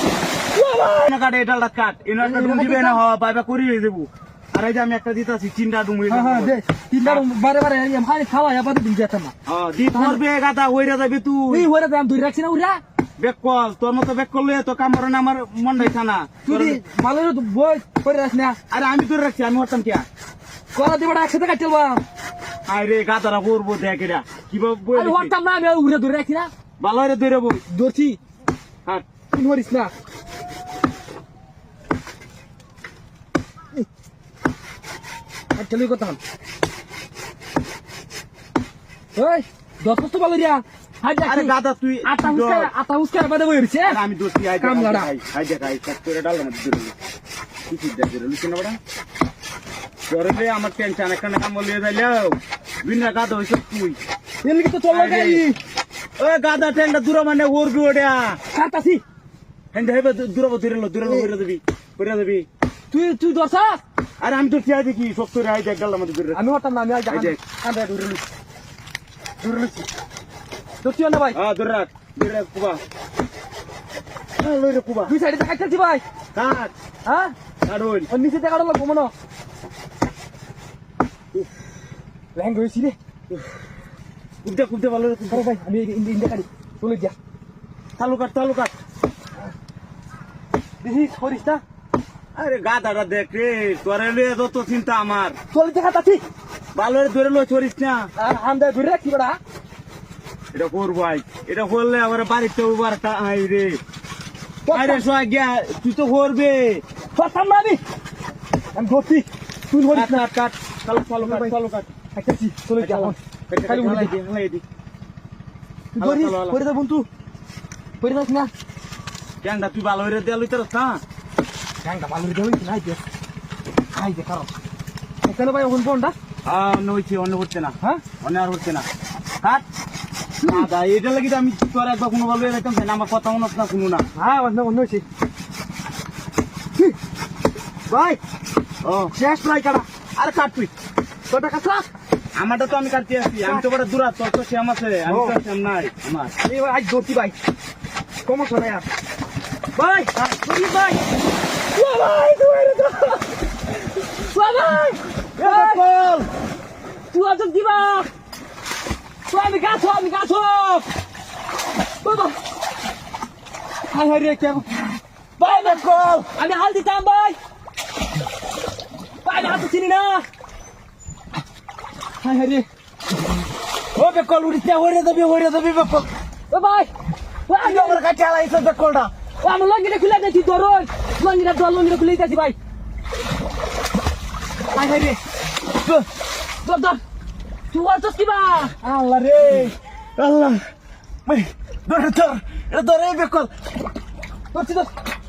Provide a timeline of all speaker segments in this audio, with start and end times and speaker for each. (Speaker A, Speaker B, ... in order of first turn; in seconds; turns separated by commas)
Speaker A: 0.5-1.1, Speaker B: 1.0-7.3, Speaker A: 2.2-3.0, Speaker A: 6.1-9.3, Speaker B: 9.5-11.7, Speaker A: 9.9-10.2, Speaker A: 11.5-12.8, Speaker B: 13.2-16.8, Speaker A: 16.5-18.6, Speaker B: 18.7-20.1, Speaker A: 20.7-22.0, Speaker B: 22.7-25.4, Speaker A: 24.9-26.5, Speaker B: 26.8-27.6, Speaker A: 27.7-28.2, Speaker A: 29.3-29.9, Speaker A: 35.5-36.2, Speaker A: 39.1-41.5, Speaker B: 41.2-42.7, Speaker A: 42.0-44.0, Speaker B: 43.9-47.0, Speaker A: 44.6-45.1, Speaker B: 47.7-48.8, Speaker B: 50.1-54.0, Speaker A: 54.4-55.6, Speaker B: 54.9-55.5, Speaker B: 56.2-58.4, Speaker A: 58.5-59.0, Speaker B: 59.7-62.5, Speaker A: 61.0-61.3, Speaker A: 62.9-63.8, Speaker B: 64.2-66.4, Speaker A: 66.3-68.2, Speaker B: 67.1-67.4, Speaker A: 69.4-69.9, Speaker A: 70.8-71.4, Speaker B: 71.3-72.8, Speaker B: 74.4-75.1, Speaker A: 75.1-76.0, Speaker B: 76.3-76.7, Speaker A: 77.1-77.3, Speaker B: 77.6-78.1, Speaker A: 78.1-79.1, Speaker A: 82.3-83.0, Speaker B: 84.4-85.4, Speaker A: 85.3-87.2, Speaker B: 88.0-88.7, Speaker A: 90.8-91.6, Speaker B: 92.3-95.4, Speaker A: 95.5-96.2, Speaker B: 96.7-98.1, Speaker A: 98.2-99.4, Speaker B: 100.5-103.8, Speaker A: 104.7-105.0, Speaker B: 104.7-106.8, Speaker A: 107.1-107.8, Speaker A: 108.7-110.2, Speaker B: 109.9-111.9, Speaker A: 111.2-111.5, Speaker A: 112.1-114.1, Speaker B: 112.8-114.6, Speaker A: 116.0-117.1, Speaker B: 116.0-116.6, Speaker A: 118.0-118.5, Speaker B: 119.4-121.0, Speaker A: 121.8-123.0, Speaker A: 123.9-124.5, Speaker A: 125.2-126.2, Speaker B: 126.5-128.9, Speaker A: 130.4-130.7, Speaker B: 130.4-134.1, Speaker A: 134.2-135.1, Speaker A: 137.9-138.2, Speaker B: 138.8-139.1, Speaker A: 139.1-139.8, Speaker B: 140.2-140.7, Speaker A: 141.3-141.9, Speaker B: 142.4-146.3, Speaker A: 145.1-145.4, Speaker A: 146.4-147.3, Speaker A: 148.2-148.9, Speaker A: 149.8-151.0, Speaker A: 151.7-153.2, Speaker A: 154.1-155.8, Speaker B: 155.4-156.3, Speaker A: 157.1-158.1, Speaker A: 159.3-160.9, Speaker A: 162.0-162.4, Speaker A: 163.9-164.8, Speaker B: 165.4-166.3, Speaker A: 165.4-167.4, Speaker A: 169.2-170.2, Speaker A: 172.2-172.7, Speaker B: 174.0-176.1, Speaker A: 176.5-176.9, Speaker A: 177.5-178.0, Speaker B: 177.6-179.1, Speaker A: 179.4-182.6, Speaker A: 184.7-185.2, Speaker A: 186.6-187.0, Speaker A: 187.7-189.7, Speaker B: 190.2-190.6, Speaker B: 191.3-193.5, Speaker A: 194.5-194.9